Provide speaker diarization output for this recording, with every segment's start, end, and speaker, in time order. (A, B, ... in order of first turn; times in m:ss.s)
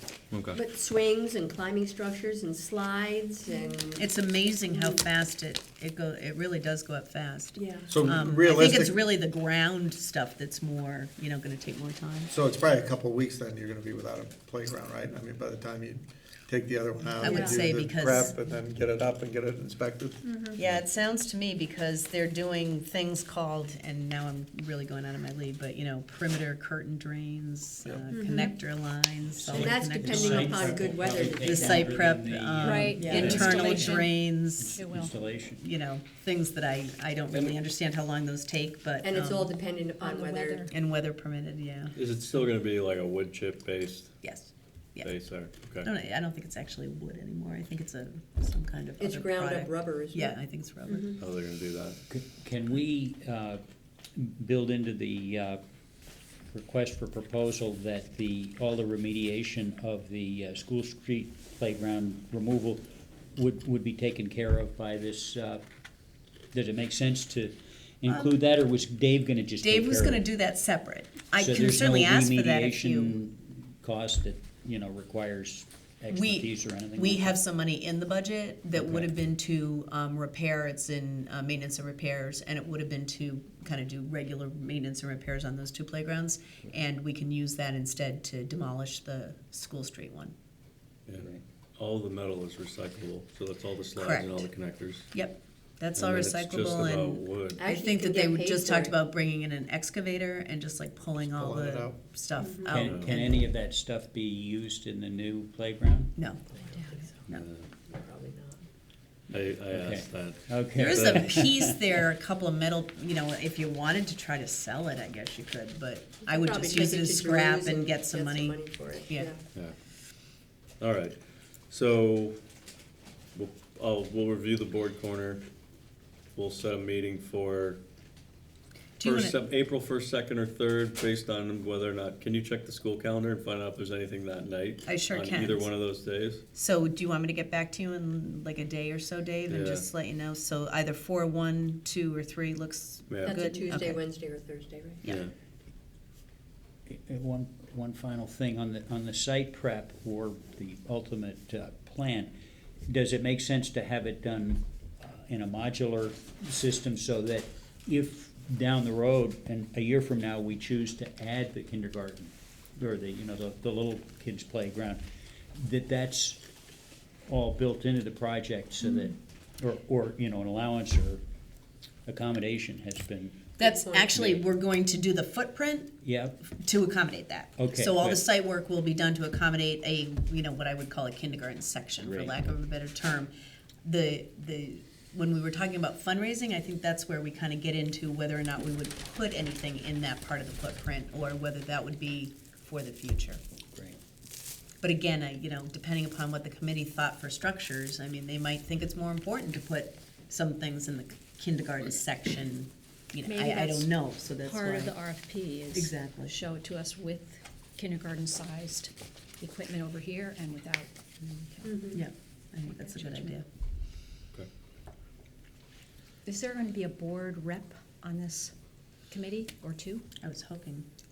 0:00.3-0:00.6 A
0:00.5-0:04.1 B
0:04.0-0:12.3 C
0:07.6-0:07.9 B
0:07.9-0:09.0 D
0:12.3-0:20.2 D
0:17.2-0:18.3 C
0:17.2-0:17.5 E
0:20.2-0:20.6 E
0:20.5-0:34.8 C
0:28.1-0:28.5 E
0:29.3-0:35.6 F
0:29.5-0:32.0 B
0:32.6-0:34.1 E
0:34.8-0:35.1 E
0:35.6-0:39.5 C
0:39.0-0:40.7 B
0:40.0-0:40.7 E
0:40.7-0:41.9 C
0:42.0-0:44.1 A
0:44.2-0:45.1 C
0:45.0-0:45.9 A
0:45.8-0:51.2 C
0:49.0-0:50.4 B
0:50.9-0:51.2 B
0:51.2-0:52.0 A
0:52.1-0:53.6 F
0:54.1-0:55.6 F
0:56.5-1:05.6 F
1:06.5-1:10.2 F
1:09.6-1:13.2 C
1:11.4-1:17.4 F
1:16.1-1:30.3 C
1:18.7-1:19.1 F
1:31.1-1:35.1 A
1:34.0-1:34.5 C
1:35.1-1:43.5 C
1:36.0-1:37.6 A
1:37.6-1:39.0 B
1:41.2-1:42.0 D
1:42.4-1:42.7 B
1:42.7-1:46.1 F
1:42.7-1:43.1 A
1:46.2-1:46.4 C
1:46.7-1:47.2 B
1:47.3-1:47.7 A
1:47.9-1:48.6 B
1:49.3-1:51.2 A
1:49.7-1:51.8 F
1:50.8-1:59.3 C
1:56.2-1:59.4 B
2:00.8-2:02.4 A
2:03.3-2:05.4 A
2:06.3-2:07.8 A
2:09.0-2:09.4 C
2:09.0-2:16.4 A
2:14.8-2:15.7 C
2:16.5-2:24.0 C
2:19.5-2:19.8 A
2:23.1-2:23.4 A
2:23.2-2:25.0 B
2:25.0-2:25.3 A
2:26.9-2:32.3 F
2:32.9-2:45.0 F
2:45.5-2:46.4 F
2:47.3-2:51.2 F
2:52.0-2:53.4 F
2:53.6-2:55.9 C
2:53.6-2:54.4 B
2:56.0-2:56.4 F
2:56.5-3:03.3 C
2:57.6-2:58.2 F
3:02.0-3:02.4 F
3:03.8-3:13.4 C
3:14.8-3:25.0 C
3:23.2-3:31.9 E
3:25.7-3:26.3 C
3:31.9-3:33.4 C
3:32.7-3:33.3 E
3:36.2-3:38.5 E
3:39.1-3:40.0 E
3:40.2-3:40.9 C